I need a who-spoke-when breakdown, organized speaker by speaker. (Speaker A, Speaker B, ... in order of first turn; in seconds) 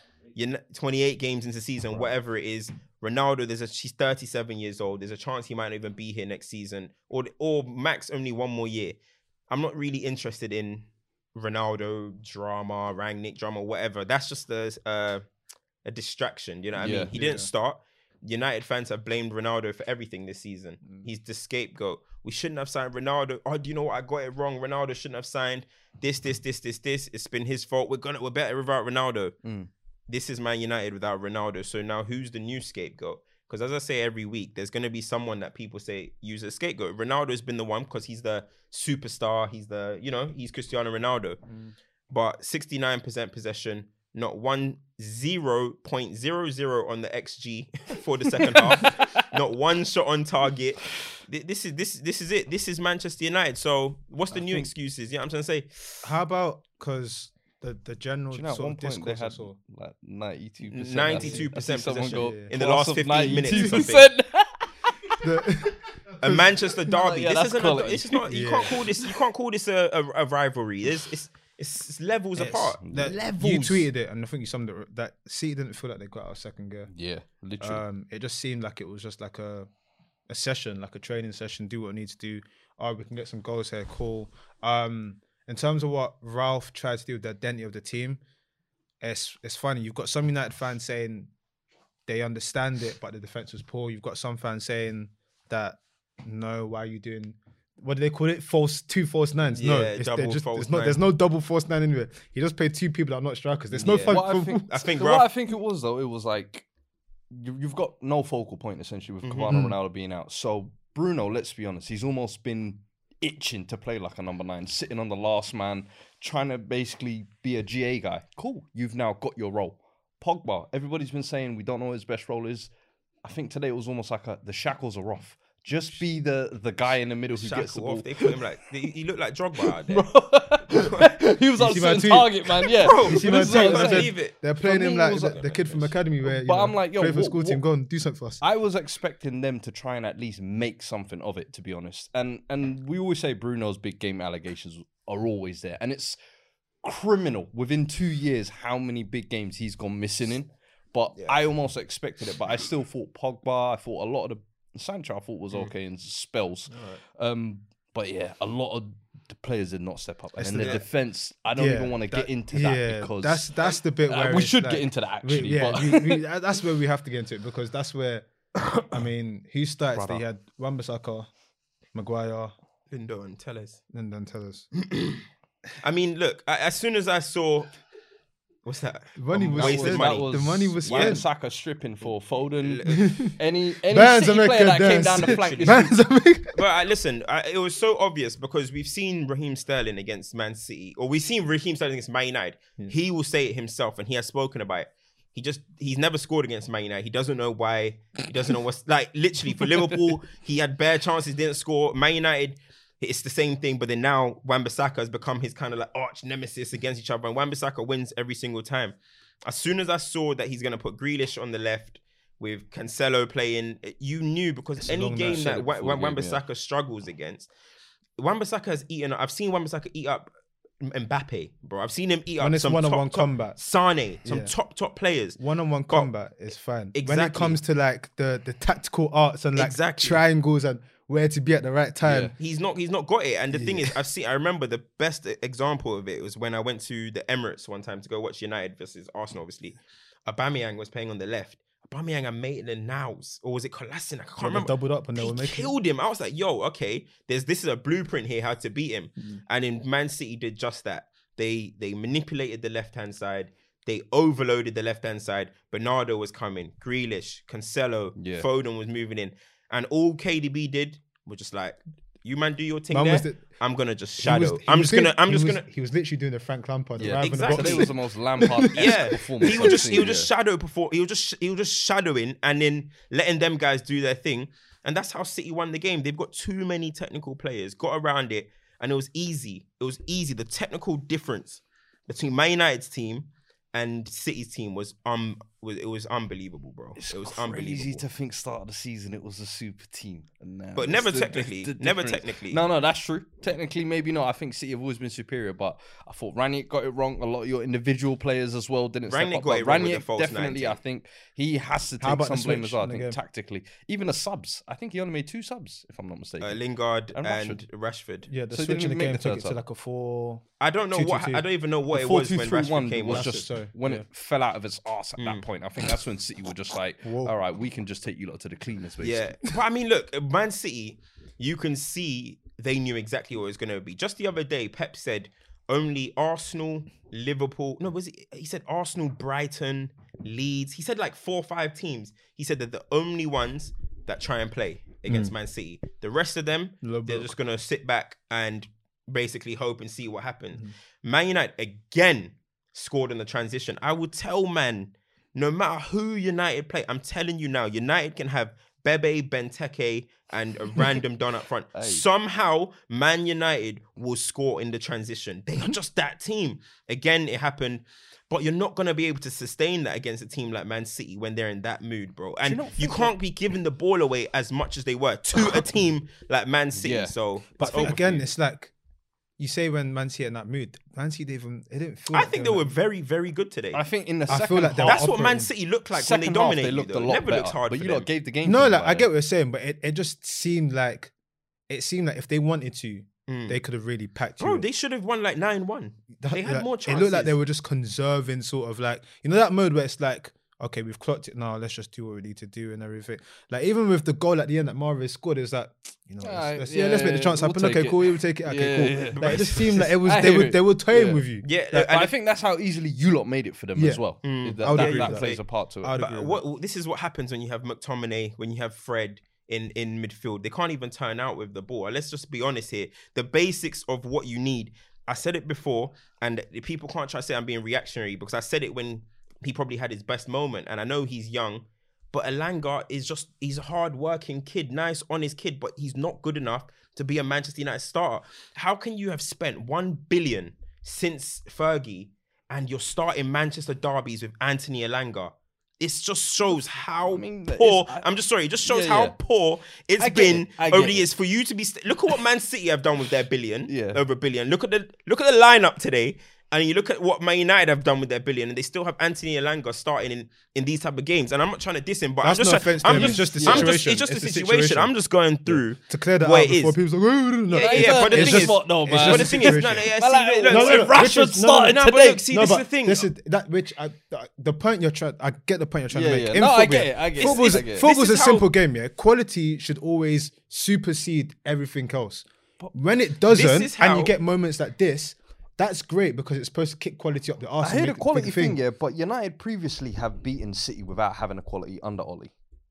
Speaker A: 0.3-9.0, 9.5-15.2, 15.8-29.4, 30.1-41.4, 42.1-55.8, 60.7-64.1, 66.2-73.9, 99.5-101.0, 103.8-105.3, 109.2-109.6, 127.3-130.1, 130.7-131.1, 132.8-134.3, 135.2-135.9, 151.2-151.4, 172.9-173.8, 174.8-175.2, 175.8-177.7, 178.7-181.2, 182.6-183.1, 185.1-185.9, 186.5-217.5, 218.2-220.3, 220.8-225.4, 226.9-227.6, 229.6-230.2, 232.4-265.6, 267.1-267.9, 268.7-288.0, 290.8-292.6, 299.1-300.8, 306.4-308.3, 310.6-313.4, 315.2-315.4, 319.0-368.2, 372.1-373.8, 374.9-378.1, 383.3-383.6, 384.4-387.4, 399.1-399.8, 401.4-402.1, 404.2-405.4, 405.9-456.8, 457.5-463.1, 467.2-468.5, 473.3-474.1
Speaker B: 16.8-17.1, 29.4-29.7, 48.3-49.2, 54.4-54.7, 58.3-65.2, 66.8-68.4, 72.8-73.2, 76.9-77.8, 103.8-106.7, 107.3-122.7, 123.2-128.5, 129.6-135.4, 136.2-137.6, 138.4-146.2, 146.8-166.2, 168.6-169.1, 169.9-170.2, 179.5-185.9, 215.6-216.4, 232.0-232.3, 258.2-258.5, 267.0-270.3, 287.0-306.6, 307.1-307.6, 308.5-309.6, 311.9-319.4, 351.8-352.1, 362.4-363.1, 366.8-368.0, 373.7-375.1, 375.9-379.1, 396.2-406.0, 436.5-438.1, 438.6-439.2, 440.0-441.1, 443.7-444.0, 452.9-453.8, 457.5-462.2, 465.9-467.9, 477.6-482.3
Speaker C: 17.1-17.5, 56.0-59.6, 61.1-61.5, 62.1-62.5, 63.5-63.8, 65.2-66.5, 68.3-68.8, 72.4-76.9, 77.6-79.7, 80.3-88.2, 89.0-91.3, 92.1-104.7, 109.5-109.8, 131.6-138.4, 160.4-160.8, 161.5-168.3, 168.8-171.3, 171.9-172.5, 173.9-174.7, 179.2-181.2, 182.9-186.7, 214.8-215.7, 222.4-223.6, 224.2-224.5, 225.4-232.3, 233.5-233.9, 244.4-245.7, 262.9-263.4, 264.2-269.9, 302.0-303.2, 308.3-311.4, 313.1-314.1, 317.0-317.3, 335.1-335.3, 336.8-337.3, 367.6-368.7, 369.4-372.8, 374.3-375.5, 378.4-381.1, 381.7-384.6, 386.2-401.5, 403.8-404.1, 404.6-406.4, 452.2-454.9, 455.5-459.9, 460.5-478.6